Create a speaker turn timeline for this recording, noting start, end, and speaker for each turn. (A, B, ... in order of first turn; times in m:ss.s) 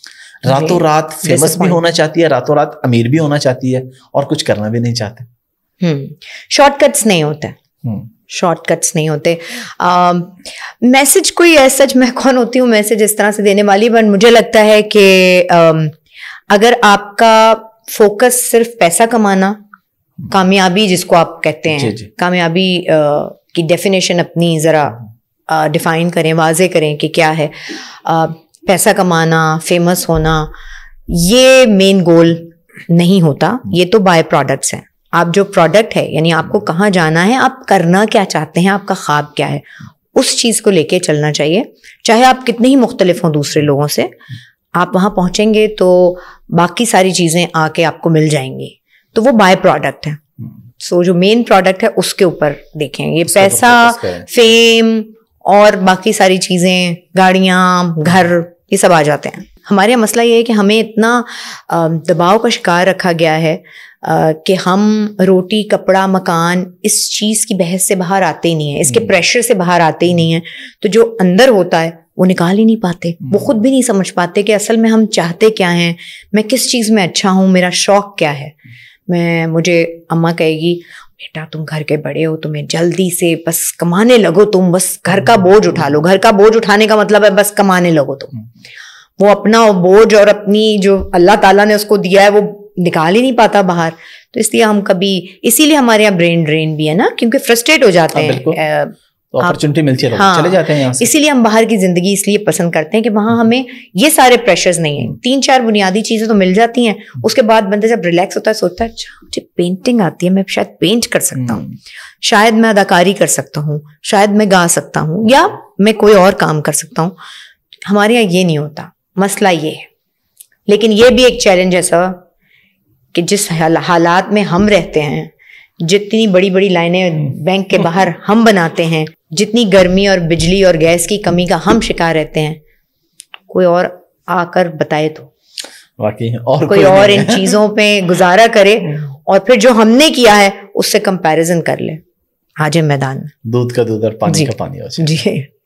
0:00.4-0:05.3 A
0:00.5-0:01.8 B
0:05.8-0:07.6 B
0:08.3-0:16.0 B
0:16.5-0:19.6 B
0:20.3-0:30.5 B
0:21.7-0:22.1 A
0:31.1-0:44.2 B
0:44.8-0:50.2 B
0:50.8-1:18.6 B
0:53.3-0:54.3 A
1:19.1-1:28.3 B
1:29.2-1:39.6 B
1:38.1-1:38.6 A
1:39.3-1:41.1 A
1:40.1-1:51.6 B
1:52.2-1:57.2 B
1:57.9-1:59.9 B
2:00.7-2:02.2 B
2:03.1-2:12.6 B
2:13.5-2:15.3 B
2:16.0-2:17.6 A
2:16.7-2:22.0 B
2:22.6-2:23.3 B
2:23.4-2:25.2 A
2:24.3-2:25.5 B